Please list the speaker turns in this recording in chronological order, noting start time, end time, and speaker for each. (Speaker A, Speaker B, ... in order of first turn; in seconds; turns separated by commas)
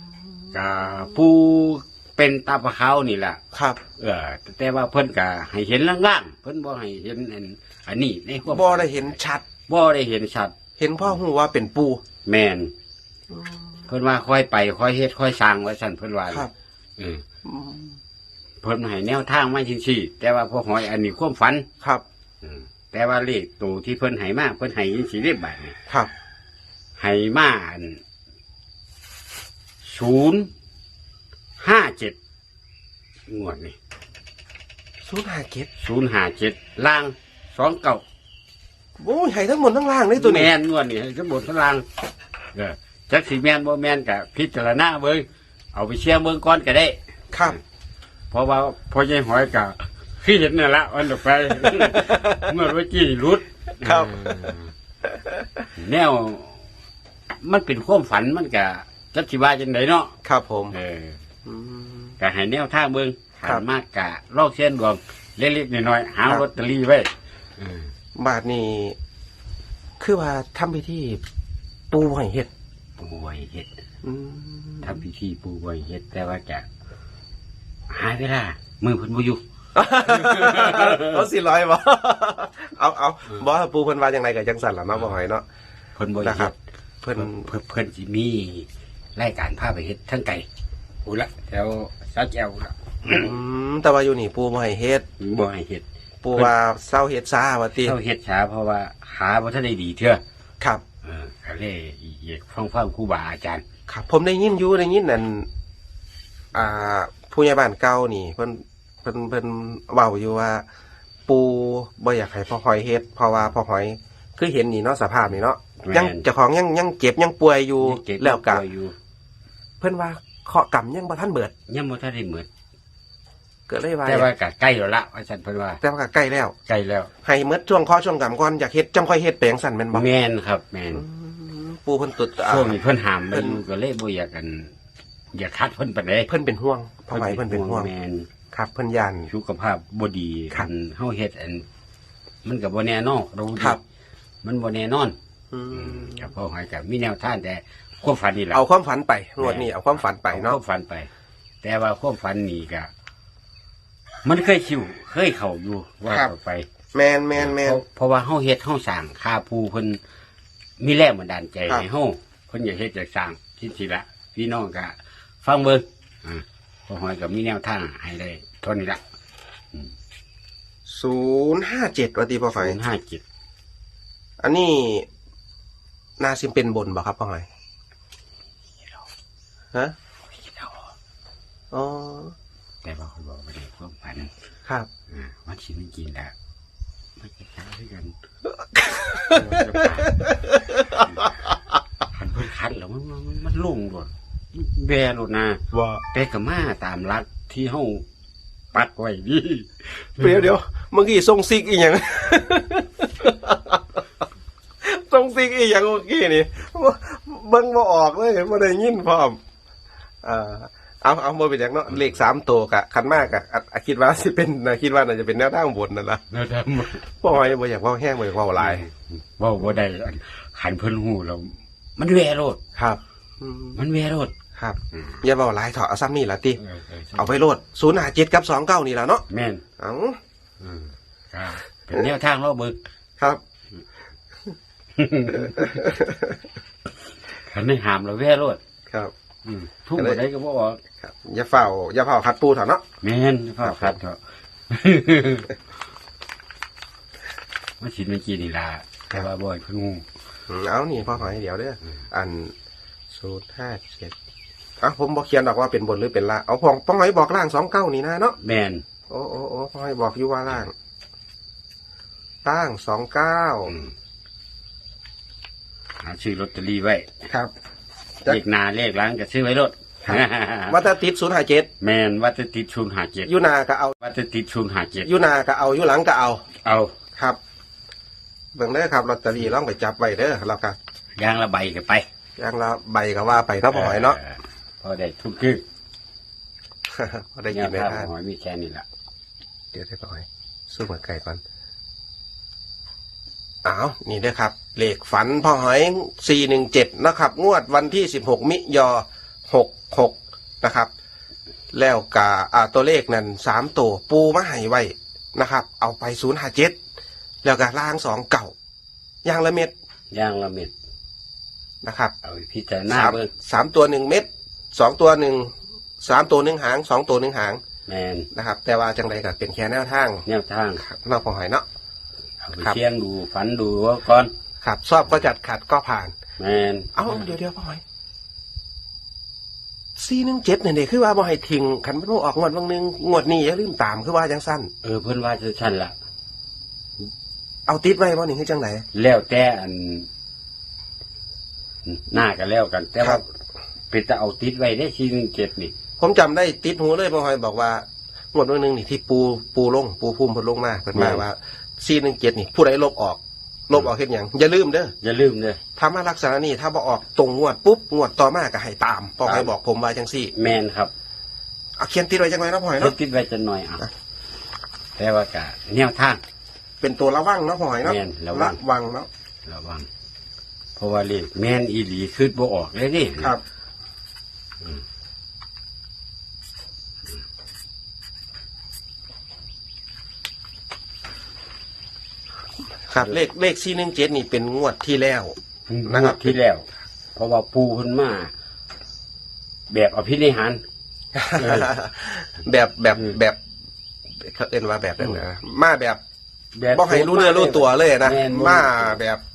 Speaker A: 0.5-3.4, Speaker B: 3.5-3.8, Speaker A: 4.0-10.5, Speaker B: 8.4-9.4, Speaker B: 10.8-12.0, Speaker A: 12.2-12.7, Speaker B: 13.3-13.8, Speaker A: 13.9-17.2, Speaker B: 17.4-18.0, Speaker A: 18.6-21.7, Speaker A: 22.4-25.8, Speaker A: 27.0-28.0, Speaker A: 29.8-30.5, Speaker A: 31.6-32.1, Speaker A: 33.3-33.8, Speaker B: 35.0-35.7, Speaker A: 35.8-38.0, Speaker B: 39.0-40.5, Speaker A: 40.1-41.9, Speaker A: 42.5-47.6, Speaker B: 47.3-47.6, Speaker A: 48.3-54.7, Speaker B: 51.7-52.5, Speaker B: 53.8-54.2, Speaker B: 55.0-55.6, Speaker A: 55.8-56.6, Speaker A: 57.4-60.1, Speaker B: 60.2-60.8, Speaker A: 60.7-61.2, Speaker B: 61.4-62.2, Speaker A: 62.2-67.9, Speaker B: 68.2-69.0, Speaker B: 70.0-71.2, Speaker B: 71.9-72.5, Speaker A: 73.0-73.7, Speaker B: 74.0-75.0, Speaker A: 74.8-76.7, Speaker A: 77.9-79.4, Speaker B: 79.7-85.4, Speaker A: 80.0-81.2, Speaker A: 86.0-86.6, Speaker B: 86.2-87.5, Speaker A: 87.2-90.5, Speaker A: 91.0-93.3, Speaker B: 93.1-95.0, Speaker A: 95.2-96.5, Speaker B: 96.2-98.0, Speaker A: 97.8-100.2, Speaker A: 101.0-103.6, Speaker B: 103.9-105.5, Speaker B: 106.5-110.6, Speaker B: 111.3-118.6, Speaker A: 115.3-116.2, Speaker A: 117.8-118.9, Speaker B: 119.8-121.5, Speaker A: 121.7-122.5, Speaker B: 123.7-124.3, Speaker A: 124.0-125.8, Speaker B: 125.8-126.5, Speaker A: 126.7-127.1, Speaker B: 127.2-130.0, Speaker A: 129.9-131.0, Speaker B: 130.9-132.8, Speaker A: 132.4-134.7, Speaker B: 133.3-133.6, Speaker A: 135.3-136.3, Speaker B: 136.3-137.9, Speaker A: 137.1-138.3, Speaker B: 138.5-139.3, Speaker A: 139.3-141.6, Speaker A: 142.4-143.8, Speaker A: 144.4-145.2, Speaker B: 145.5-146.3, Speaker A: 145.7-148.6, Speaker B: 148.5-150.6, Speaker A: 149.4-151.1, Speaker A: 151.6-152.9, Speaker A: 154.2-156.7, Speaker B: 156.9-157.8, Speaker A: 157.4-160.0, Speaker A: 160.8-169.0, Speaker B: 170.9-172.8, Speaker A: 172.5-173.2, Speaker B: 174.4-175.1, Speaker B: 176.2-177.4, Speaker A: 180.4-180.8, Speaker B: 181.7-182.3, Speaker A: 182.8-184.3, Speaker A: 185.1-186.3, Speaker A: 187.2-188.1, Speaker B: 188.7-191.5, Speaker A: 189.3-190.4, Speaker A: 192.1-195.6, Speaker B: 195.7-196.0, Speaker A: 196.1-198.0, Speaker A: 198.7-200.5, Speaker B: 200.2-203.8, Speaker B: 204.8-209.4, Speaker B: 210.2-216.2, Speaker A: 216.3-217.0, Speaker B: 217.2-218.8, Speaker A: 218.6-222.6, Speaker B: 222.8-223.8, Speaker A: 223.8-224.3, Speaker B: 224.6-226.6, Speaker A: 224.9-225.2, Speaker A: 226.6-227.3, Speaker B: 227.1-229.2, Speaker A: 229.3-229.6, Speaker B: 229.8-230.2, Speaker A: 230.6-232.8, Speaker A: 235.0-235.9, Speaker B: 235.4-236.4, Speaker A: 237.5-238.6, Speaker A: 239.4-240.8, Speaker B: 239.9-240.2, Speaker B: 241.0-242.8, Speaker A: 243.0-244.2, Speaker B: 243.6-243.9, Speaker A: 244.7-245.5, Speaker A: 247.8-250.0, Speaker B: 250.5-252.5, Speaker B: 253.1-254.1, Speaker B: 254.8-258.4, Speaker A: 258.4-258.8, Speaker B: 259.1-260.7, Speaker B: 262.4-263.7, Speaker A: 266.0-267.1, Speaker B: 267.3-267.5, Speaker A: 268.3-270.8, Speaker B: 270.0-271.7, Speaker A: 271.8-273.3, Speaker B: 273.2-273.9, Speaker A: 274.0-275.1, Speaker B: 275.0-276.4, Speaker A: 276.6-276.9, Speaker B: 278.5-280.8, Speaker A: 281.1-282.1, Speaker B: 282.4-284.2, Speaker A: 283.7-285.6, Speaker B: 286.9-288.1, Speaker A: 287.5-288.8, Speaker B: 289.7-291.4, Speaker B: 293.6-300.9, Speaker B: 301.7-306.8, Speaker B: 307.4-308.5, Speaker B: 309.2-309.7, Speaker A: 310.1-310.7, Speaker B: 311.8-312.1, Speaker A: 312.2-313.3, Speaker B: 312.9-317.6, Speaker A: 317.9-318.3, Speaker B: 318.3-320.2, Speaker A: 320.2-320.8, Speaker B: 320.8-321.6, Speaker A: 322.4-324.3, Speaker B: 324.6-326.1, Speaker A: 326.4-327.3, Speaker B: 326.9-327.8, Speaker B: 330.0-334.7, Speaker A: 334.8-335.9, Speaker B: 337.7-338.9, Speaker A: 338.9-340.1, Speaker A: 341.9-343.2, Speaker A: 343.9-345.7, Speaker B: 346.0-354.9, Speaker A: 350.9-351.2, Speaker A: 355.0-355.6, Speaker B: 355.8-360.3, Speaker A: 359.2-359.5, Speaker A: 360.3-360.9, Speaker B: 361.8-362.9, Speaker A: 362.8-363.9, Speaker A: 365.0-366.2, Speaker B: 366.8-369.1, Speaker A: 367.8-368.6, Speaker A: 369.4-369.9, Speaker A: 370.8-373.3, Speaker B: 382.9-385.3, Speaker A: 385.7-388.3, Speaker B: 385.9-386.3, Speaker A: 389.7-390.6, Speaker B: 391.1-393.4, Speaker A: 391.4-391.7, Speaker B: 394.2-396.0, Speaker A: 396.5-399.0, Speaker B: 396.7-399.2